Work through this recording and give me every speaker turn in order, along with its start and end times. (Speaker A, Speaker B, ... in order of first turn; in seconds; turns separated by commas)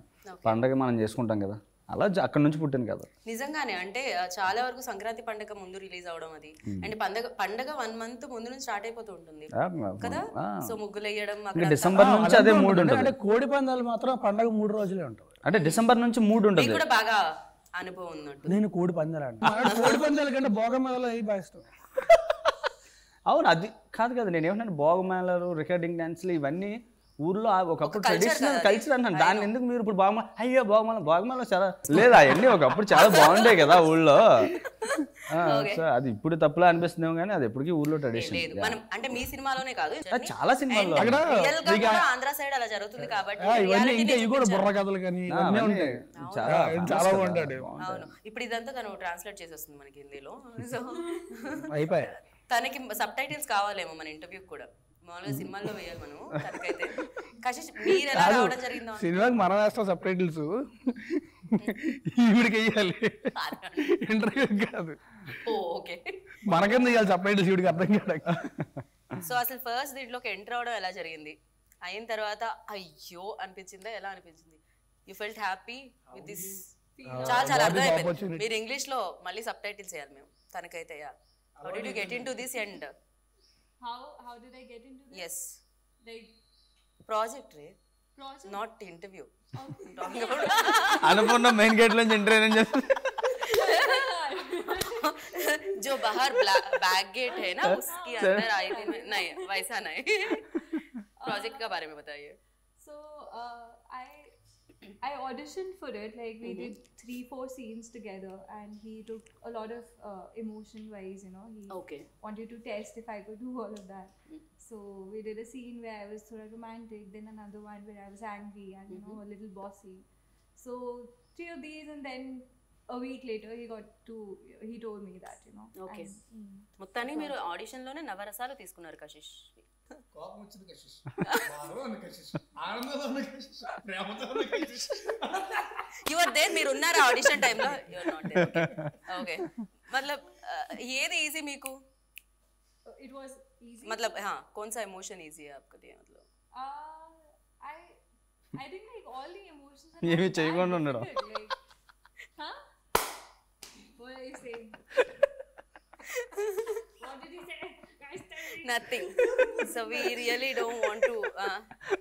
Speaker A: 0.3-0.6, Speaker B: 0.4-3.1, Speaker A: 3.3-12.1, Speaker B: 9.5-10.8, Speaker B: 11.5-13.1, Speaker C: 11.9-15.3, Speaker B: 15.4-16.8, Speaker A: 15.5-15.8, Speaker A: 16.5-17.2, Speaker A: 17.8-18.6, Speaker C: 18.5-21.7, Speaker A: 19.6-20.1, Speaker B: 23.3-34.5, Speaker A: 27.8-29.5, Speaker A: 32.9-34.2, Speaker A: 34.8-35.8, Speaker B: 35.3-38.8, Speaker A: 38.1-44.6, Speaker B: 40.1-41.2, Speaker C: 40.9-42.0, Speaker C: 43.0-47.7, Speaker B: 45.3-48.1, Speaker A: 46.2-47.2, Speaker A: 47.8-51.7, Speaker C: 51.6-52.2, Speaker A: 52.5-59.3, Speaker C: 57.9-63.3, Speaker A: 63.3-63.9, Speaker C: 63.9-65.0, Speaker A: 65.4-66.9, Speaker C: 66.4-68.5, Speaker A: 69.2-76.6, Speaker C: 76.1-78.4, Speaker D: 77.0-77.6, Speaker A: 77.2-81.1, Speaker C: 81.6-82.5, Speaker A: 81.6-82.9, Speaker D: 83.8-85.3, Speaker A: 85.1-85.6, Speaker D: 86.0-86.3, Speaker A: 87.0-87.7, Speaker D: 88.2-88.6, Speaker A: 88.4-89.3, Speaker D: 89.5-91.5, Speaker A: 89.9-91.4, Speaker B: 91.0-93.1, Speaker D: 93.2-95.3, Speaker A: 93.5-94.0, Speaker A: 94.9-100.5, Speaker D: 97.3-99.6, Speaker B: 97.7-98.4, Speaker D: 101.2-101.7, Speaker A: 101.2-102.4, Speaker D: 102.8-104.3, Speaker D: 105.0-120.0, Speaker A: 106.4-106.7, Speaker A: 111.7-112.0, Speaker A: 118.9-119.2, Speaker D: 120.6-127.4, Speaker A: 125.8-126.1, Speaker A: 126.8-129.7, Speaker C: 130.1-135.9, Speaker A: 136.0-141.8, Speaker C: 136.5-138.8, Speaker D: 142.9-144.2, Speaker A: 143.8-146.2, Speaker D: 146.5-148.0, Speaker D: 148.5-151.6, Speaker B: 150.0-151.1, Speaker D: 153.9-154.8, Speaker A: 156.1-156.8, Speaker D: 157.0-160.2, Speaker A: 158.6-161.7